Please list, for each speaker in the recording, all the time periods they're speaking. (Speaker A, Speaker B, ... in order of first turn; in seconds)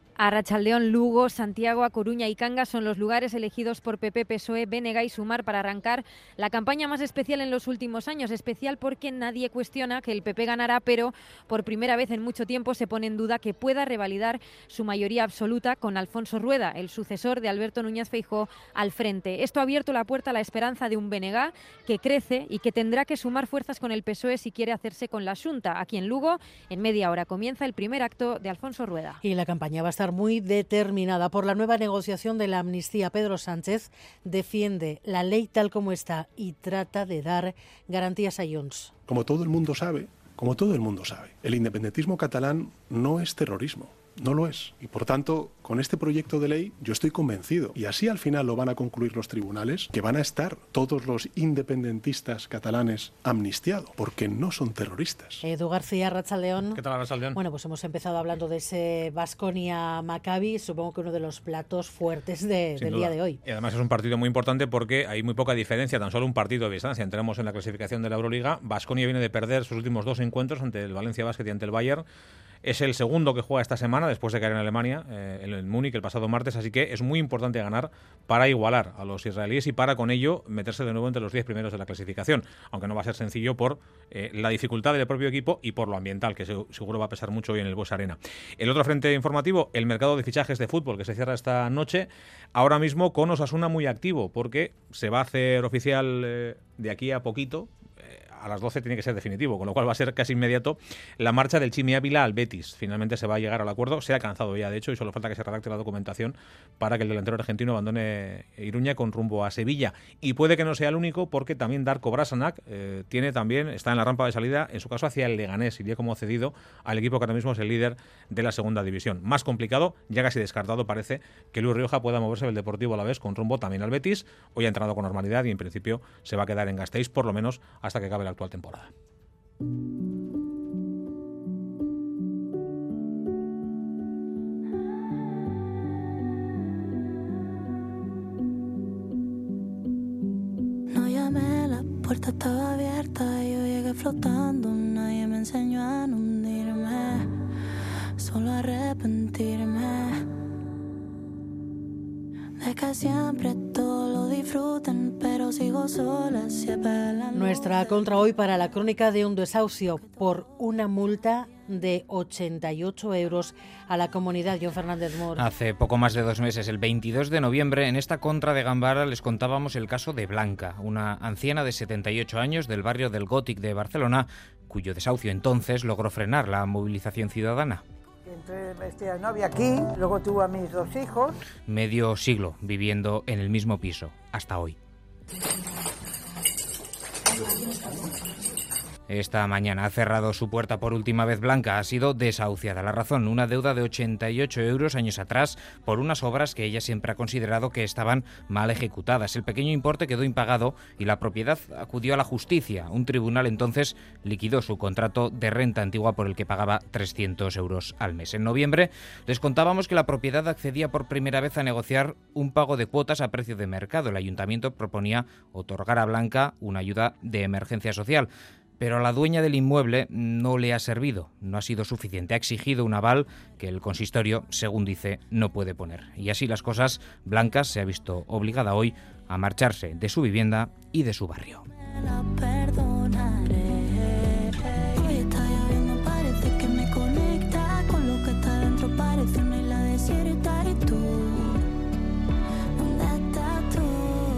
Speaker A: 0.2-29.2
Speaker B: 29.2-38.9, 55.4-56.8, 57.3-63.4, 157.3-165.4
Speaker C: 39.1-55.4
Speaker D: 56.8-57.4, 62.8-72.0, 72.6-128.9
Speaker E: 140.9-147.3, 148.2-150.2, 152.6-157.8, 232.1-234.3, 234.9-241.6, 242.8-244.1
Speaker F: 165.4-177.8, 181.7-184.8, 189.1-231.7
Speaker G: 178.3-181.3